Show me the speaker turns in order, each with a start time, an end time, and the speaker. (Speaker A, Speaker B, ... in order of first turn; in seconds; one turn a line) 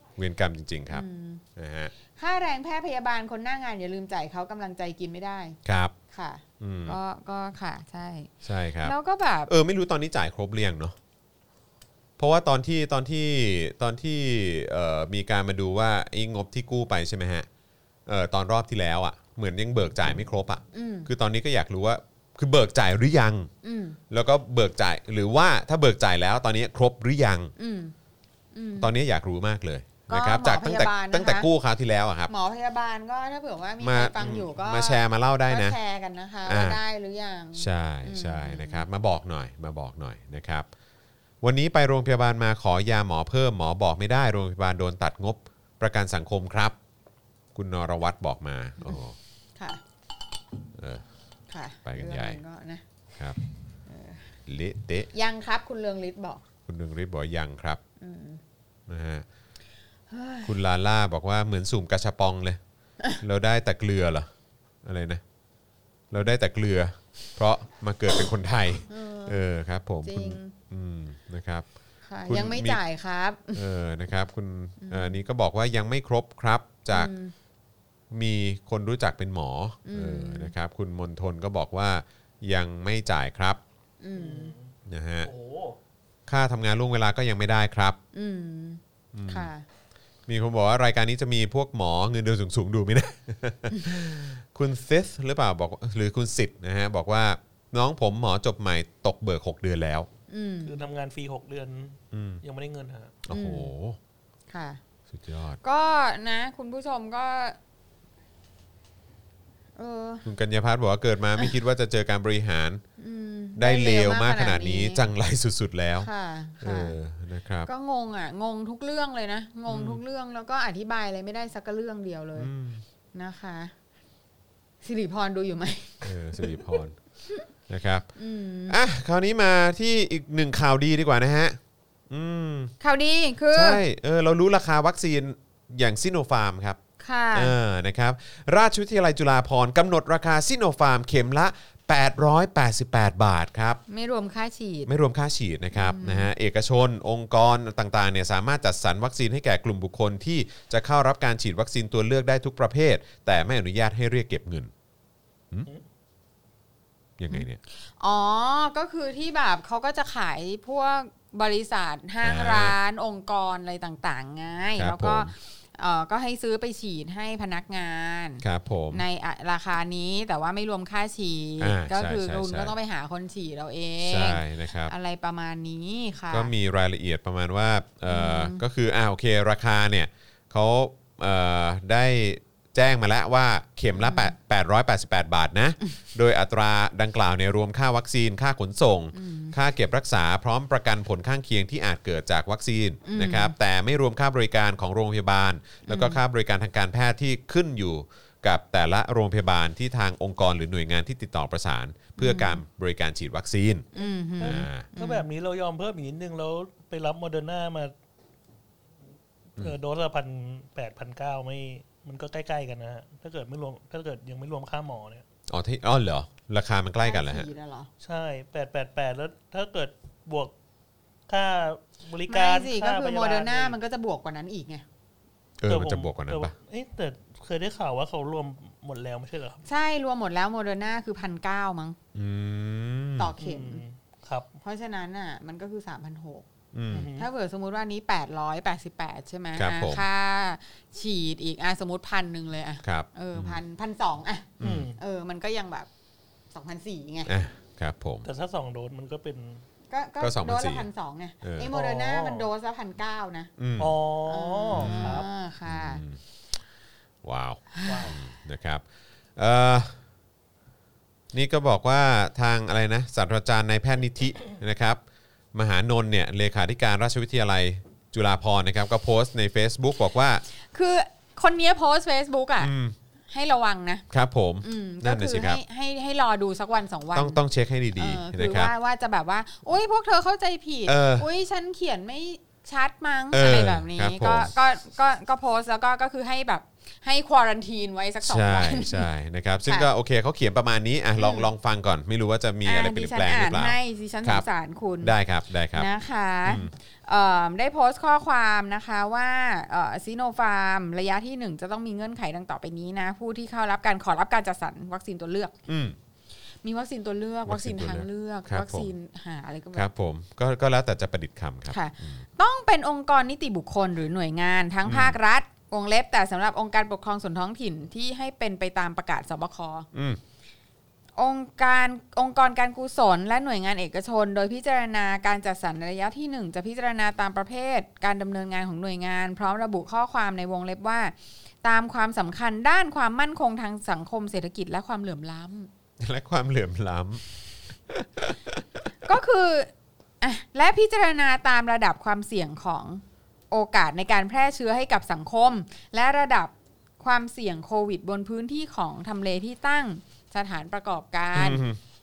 Speaker A: 0.2-1.0
Speaker B: 0.9-1.4
Speaker A: 1.6-1.9
Speaker B: 2.1-5.6
Speaker A: 5.6-5.9
Speaker B: 6.1-9.5
Speaker A: 6.6-7.0
Speaker A: 8.4-8.9
Speaker A: 9.5-10.9
Speaker A: 12.2-17.5
Speaker A: 18.1-23.5
Speaker B: 20.7-21.1
Speaker B: 23.6-24.0
Speaker A: 24.1-27.5
Speaker B: 27.6-27.9
Speaker B: 28.5-28.9
Speaker A: 28.8-32.3
Speaker B: 30.1-31.5
Speaker B: 32.3-38.8
Speaker A: 33.8-35.8
Speaker A: 36.5-36.8
Speaker A: 37.5-40.7
Speaker A: 41.4-46.8
Speaker A: 47.5-49.1
Speaker A: 50.7-51.0
Speaker B: 51.5-52.8
Speaker A: 51.8-52.4
Speaker B: 53.9-54.3
Speaker A: 54.5-55.1
Speaker B: 55.1-56.4
Speaker A: 56.6-57.8
Speaker B: 58.0-58.4
Speaker A: 58.9-59.2
Speaker B: 60.1-60.5
Speaker A: 60.4-62.6
Speaker A: 63.2-64.3
Speaker A: 64.8-65.2
Speaker A: 66.1-71.7
Speaker B: 68.9-69.4
Speaker B: 70.0-70.5
Speaker B: 72.1-73.6
Speaker A: 72.2-72.8
Speaker A: 73.5-77.1
Speaker B: 74.8-75.2
Speaker B: 76.9-77.3
Speaker A: 78.1-83.6
Speaker B: 79.8-80.5
Speaker B: 84.0-84.5
Speaker C: 84.1-85.8
Speaker A: 84.9-85.3
Speaker A: 86.3-88.0
Speaker B: 88.1-89.6
Speaker A: 89.1-89.5
Speaker A: 90.3-100.1
Speaker B: 100.3-100.8
Speaker C: 100.6-103.2
Speaker A: 102.1-102.4
Speaker A: 103.3-104.0
Speaker B: 103.3-103.7
Speaker B: 104.5-104.8
Speaker A: 105.1-105.6
Speaker B: 105.6-107.6
Speaker B: 109.8-110.3
Speaker A: 110.2-112.8
Speaker B: 113.0-115.0
Speaker A: 113.6-116.1
Speaker B: 116.0-117.0
Speaker A: 116.6-117.7
Speaker B: 117.7-122.5
Speaker A: 119.7-120.0
Speaker A: 122.3-122.8
Speaker B: 123.1-123.7
Speaker B: 124.8-127.4
Speaker A: 126.0-127.0
Speaker A: 127.7-128.1
Speaker B: 128.2-128.8
Speaker A: 128.7-131.6
Speaker A: 132.1-132.7
Speaker B: 132.8-133.8
Speaker A: 133.5-136.8
Speaker B: 137.0-137.5
Speaker A: 137.3-143.8
Speaker B: 143.9-144.9
Speaker A: 144.9-154.7
Speaker B: 145.7-146.3
Speaker A: 157.2-157.6
Speaker B: 158.0-176.5
Speaker A: 162.2-162.7
Speaker A: 164.8-165.3
Speaker A: 168.4-169.0
Speaker A: 171.6-172.7
Speaker A: 174.0-174.9
Speaker A: 176.3-203.9
Speaker B: 178.1-178.6
Speaker B: 183.9-184.3
Speaker B: 189.1-189.5
Speaker B: 193.0-193.5
Speaker B: 195.9-196.2
Speaker B: 202.2-202.6
Speaker B: 203.9-205.2
Speaker C: 204.4-207.9
Speaker A: 204.4-204.8
Speaker C: 209.6-215.2
Speaker A: 215.5-217.5
Speaker B: 217.0-217.9
Speaker C: 218.0-220.5
Speaker C: 221.3-223.8
Speaker B: 222.2-224.8
Speaker A: 225.6-226.5
Speaker C: 225.7-229.6
Speaker B: 229.6-232.0
Speaker A: 232.1-233.3
Speaker B: 233.2-233.8
Speaker C: 233.4-234.5
Speaker B: 234.6-245.9
Speaker A: 236.7-237.1
Speaker C: 236.9-237.3
Speaker A: 239.6-240.0
Speaker A: 242.8-243.6
Speaker A: 244.6-244.9
Speaker C: 244.6-245.0
Speaker B: 246.5-247.3
Speaker A: 247.3-248.2
Speaker C: 248.2-249.6
Speaker B: 249.9-253.5
Speaker A: 250.2-250.9
Speaker A: 251.4-251.7
Speaker C: 251.6-252.5
Speaker A: 253.6-254.0
Speaker C: 253.8-255.3
Speaker B: 254.2-256.0
Speaker A: 254.7-256.2
Speaker A: 257.2-258.8
Speaker B: 257.7-258.1
Speaker C: 257.8-258.2
Speaker A: 259.4-260.0
Speaker A: 261.3-265.0
Speaker A: 265.5-270.4
Speaker B: 270.7-272.7
Speaker A: 272.6-272.9
Speaker B: 273.3-274.0
Speaker A: 274.1-275.6
Speaker B: 274.6-277.4
Speaker A: 277.1-278.7
Speaker B: 277.9-289.1
Speaker A: 280.9-281.3
Speaker A: 283.3-284.5
Speaker A: 288.2-294.4
Speaker B: 291.2-291.5
Speaker B: 292.6-295.1
Speaker A: 295.0-295.9
Speaker B: 295.7-305.5
Speaker A: 296.4-296.7
Speaker A: 305.7-305.9
Speaker B: 306.6-309.9
Speaker A: 307.5-308.9
Speaker A: 309.7-312.2
Speaker B: 311.7-319.9
Speaker A: 314.8-315.2
Speaker A: 319.9-320.2
Speaker B: 321.2-335.7
Speaker A: 336.0-337.2
Speaker A: 337.9-338.9
Speaker B: 339.0-339.7
Speaker B: 340.2-351.6
Speaker A: 351.3-351.8